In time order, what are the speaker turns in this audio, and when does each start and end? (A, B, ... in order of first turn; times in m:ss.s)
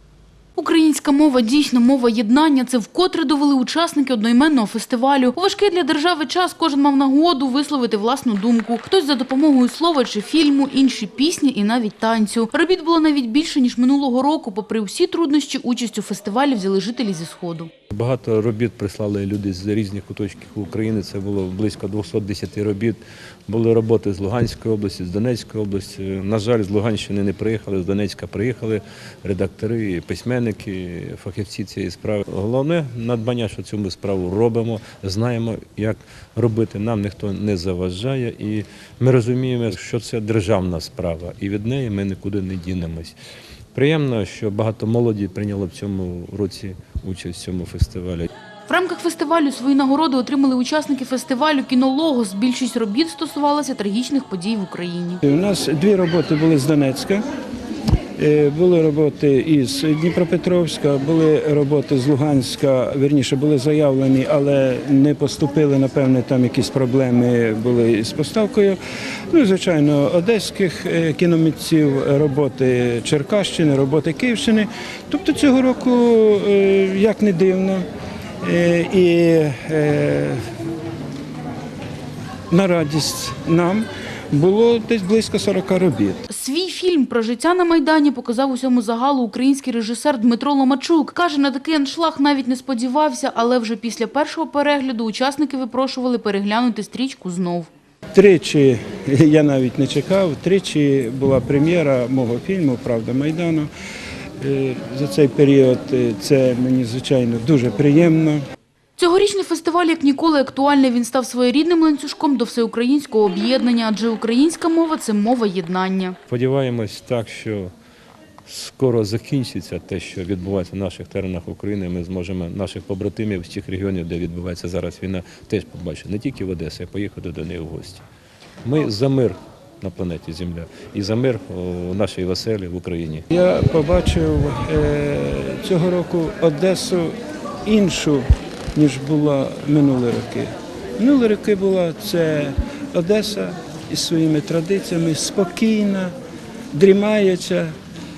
0:00.6-0:17.7 A
0:17.9-0:43.2 B
0:43.7-0:48.3 B
0:48.7-0:55.2 A
0:55.3-0:57.2 C
0:58.2-1:08.8 C
1:09.3-1:17.9 C
1:18.4-1:20.4 C
1:22.5-1:26.2 C
1:26.3-1:37.7 A
1:38.1-1:43.7 C
1:44.4-1:48.4 C
1:49.0-1:56.2 A
1:56.3-1:57.7 B
1:58.5-2:08.0 B
2:08.6-2:13.2 B
2:13.3-2:26.2 C
2:26.7-2:27.7 C